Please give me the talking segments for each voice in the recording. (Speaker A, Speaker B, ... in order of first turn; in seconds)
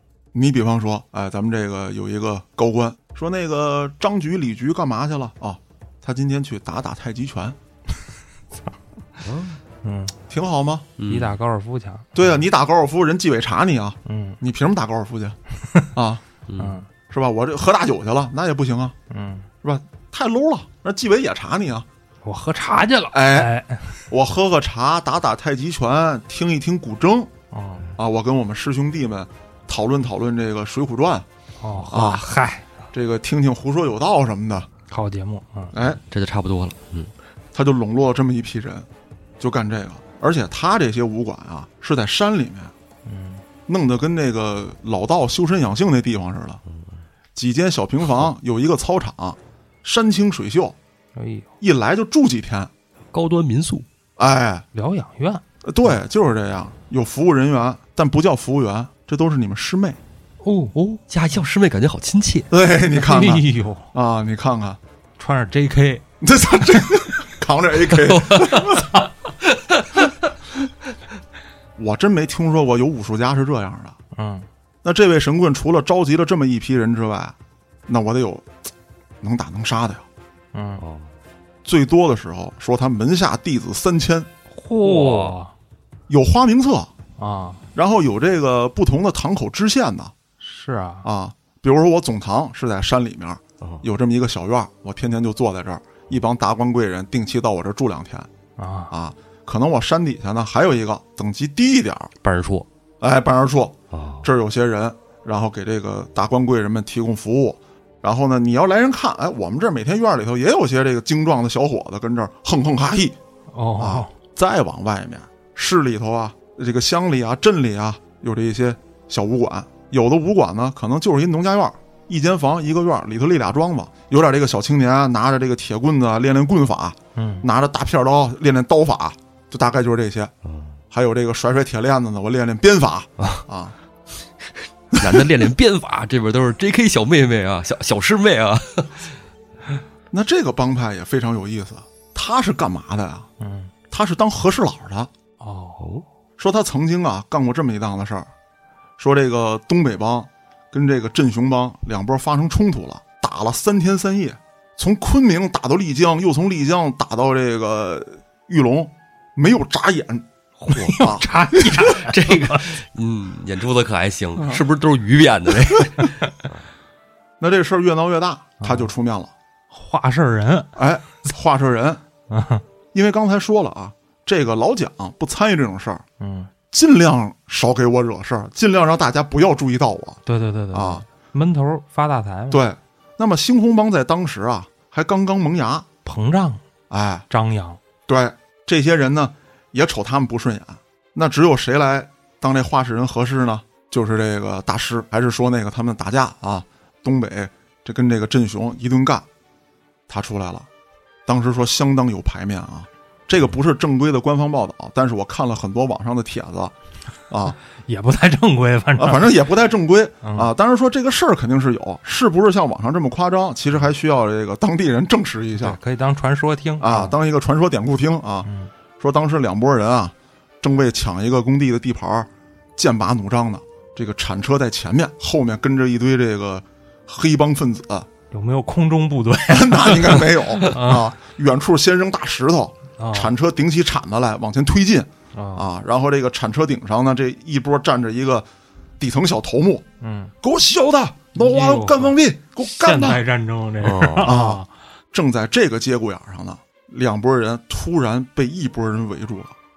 Speaker A: 0.3-7.6, 10.3-10.9, 12.1-15.4, 15.9-16.2, 17.1-18.9, 19.6-21.9, 23.1-23.5, 24.1-27.3, 27.9-31.2, 31.9-32.2, 32.9-34.7, 35.7-36.0, 37.5-38.9, 39.4-42.7, 43.7-46.6, 47.3-50.8, 51.6-52.7, 54.2-54.6, 55.6-60.0, 62.5-64.8, 66.2-68.9, 71.8-74.0, 74.8-77.3, 77.9-78.5, 79.2-80.0, 81.6-84.3, 86.1-86.9, 87.7-90.1, 91.0-98.3, 98.9-102.1, 103.0-113.2, 113.8-130.3, 130.9-133.7, 134.9-135.3, 140.1-143.3, 143.9-145.1, 146.4-148.3, 149.0-160.2, 160.9-161.2, 164.4-164.6, 167.4-169.3, 170.8-172.0, 172.9-176.0, 176.7-180.2, 180.7-181.0, 182.5-185.9, 186.9-187.2, 188.1-199.2, 200.1-200.7, 201.2-206.7, 207.3-207.6, 209.0-215.8, 216.8-218.5, 219.0-228.1, 229.5-238.5, 239.0-239.8, 240.4-243.2, 244.2-249.5
Speaker B: 9.2-9.6, 11.0-11.4, 16.5-16.7, 36.1-37.1, 53.1-53.9, 61.1-62.5, 67.9-68.9, 69.5-70.1, 80.8-81.1, 84.8-85.4, 102.2-102.7, 103.9-104.3, 130.4-130.8, 133.2-133.4, 134.9-139.1, 145.8-146.0, 160.7-160.9, 161.8-166.6, 243.8-244.3
Speaker C: 9.8-10.1, 11.1-12.1, 14.0-14.4, 16.6-16.9, 19.1-19.5, 22.2-24.1, 27.5-27.9, 31.6-32.6, 34.9-35.7, 43.0-43.4, 51.1-51.5, 54.7-55.4, 60.4-61.0, 62.9-63.9, 65.2-66.0, 74.1-74.5, 80.5-80.8, 84.5-85.5, 87.2-87.6, 90.4-91.1, 98.6-98.9, 113.5-114.1, 127.1-127.5, 143.4-143.7, 145.4-145.8, 160.6-162.7, 168.6-168.9, 169.7-170.7, 172.3-172.6, 176.2-176.5, 180.2-182.6, 186.0-186.6, 187.3-187.8, 207.8-209.4, 210.2-210.5, 215.6-217.1, 218.4-218.7, 228.3-231.1, 233.0-233.3, 235.3-235.7, 240.0-240.3, 241.3-244.7